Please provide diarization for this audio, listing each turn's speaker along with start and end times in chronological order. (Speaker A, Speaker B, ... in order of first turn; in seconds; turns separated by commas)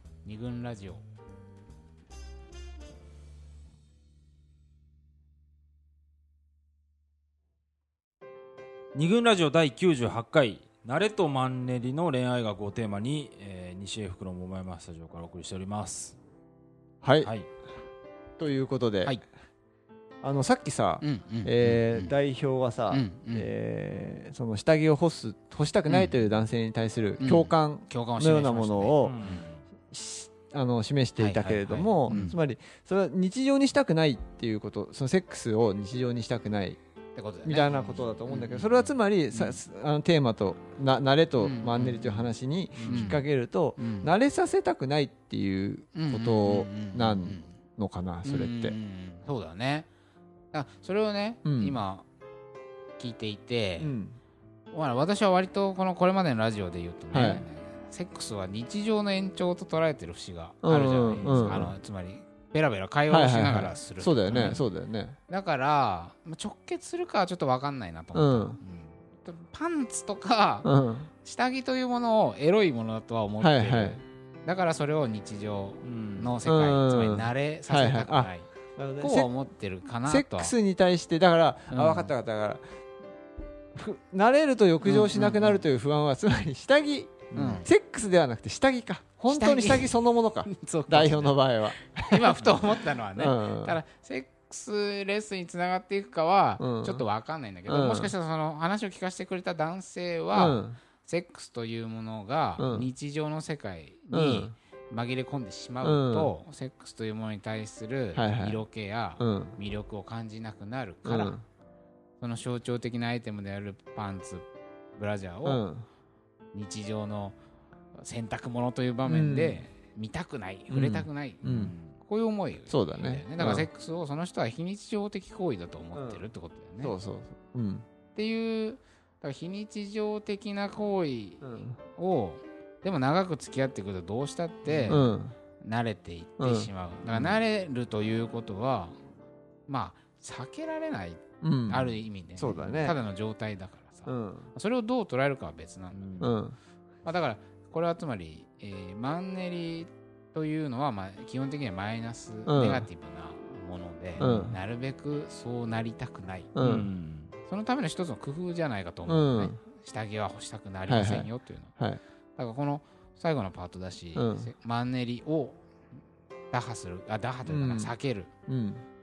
Speaker A: 0.2-1.0, Speaker B: 8.9-16.2, Speaker C: 17.0-17.3, Speaker C: 18.4-19.2, Speaker C: 20.2-29.2, Speaker A: 21.0-22.1, Speaker A: 22.9-23.5, Speaker A: 25.9-26.2, Speaker A: 27.2-29.4, Speaker B: 29.0-29.6, Speaker C: 29.9-36.8, Speaker A: 31.2-32.4, Speaker A: 37.1-39.6, Speaker C: 37.4-48.8, Speaker A: 41.4-43.2, Speaker B: 42.8-43.2, Speaker A: 43.8-44.1, Speaker A: 46.0-47.5, Speaker A: 48.2-49.9, Speaker A: 50.5-52.1, Speaker C: 51.5-51.8, Speaker A: 53.0-53.9, Speaker C: 53.8-54.2, Speaker A: 54.7-64.6, Speaker C: 57.1-57.4, Speaker C: 60.6-61.7, Speaker B: 61.2-61.7, Speaker C: 63.1-65.2, Speaker A: 65.3-70.7, Speaker C: 68.1-68.6, Speaker C: 70.6-71.1, Speaker A: 71.2-78.5, Speaker C: 73.4-74.0, Speaker B: 75.8-76.3, Speaker C: 76.5-79.3, Speaker A: 79.0-80.5, Speaker C: 80.0-82.6, Speaker A: 81.7-82.1, Speaker C: 83.8-92.5, Speaker A: 84.8-85.6, Speaker B: 87.3-87.7, Speaker A: 87.3-87.7, Speaker A: 89.3-90.0, Speaker A: 90.5-111.4, Speaker C: 93.2-93.8, Speaker C: 96.6-97.0, Speaker C: 97.7-98.1, Speaker C: 100.3-100.8, Speaker C: 102.6-102.9, Speaker C: 104.1-104.5, Speaker C: 105.8-106.3, Speaker C: 108.2-108.6, Speaker C: 109.2-109.5, Speaker C: 111.0-111.4, Speaker A: 112.2-115.6, Speaker C: 115.4-115.8, Speaker A: 116.5-117.4, Speaker A: 118.0-126.9, Speaker C: 119.1-119.6, Speaker C: 120.7-121.7, Speaker B: 121.5-121.8, Speaker C: 122.7-123.7, Speaker C: 126.0-126.2, Speaker C: 126.8-127.9, Speaker A: 128.1-135.1, Speaker C: 131.4-131.8, Speaker B: 134.7-134.9, Speaker C: 134.9-135.3, Speaker A: 135.6-139.0, Speaker C: 136.4-137.3, Speaker A: 139.7-146.0, Speaker C: 141.4-143.0, Speaker C: 144.1-144.5, Speaker B: 145.9-146.3, Speaker C: 146.2-146.6, Speaker A: 147.1-156.5, Speaker C: 152.5-152.9, Speaker C: 154.2-154.6, Speaker C: 156.6-156.9, Speaker B: 156.6-157.3, Speaker A: 157.5-161.7, Speaker C: 159.1-159.6, Speaker C: 160.9-162.0, Speaker A: 162.4-165.6, Speaker C: 164.2-164.5, Speaker A: 166.5-168.3, Speaker C: 167.5-167.9, Speaker C: 168.5-168.8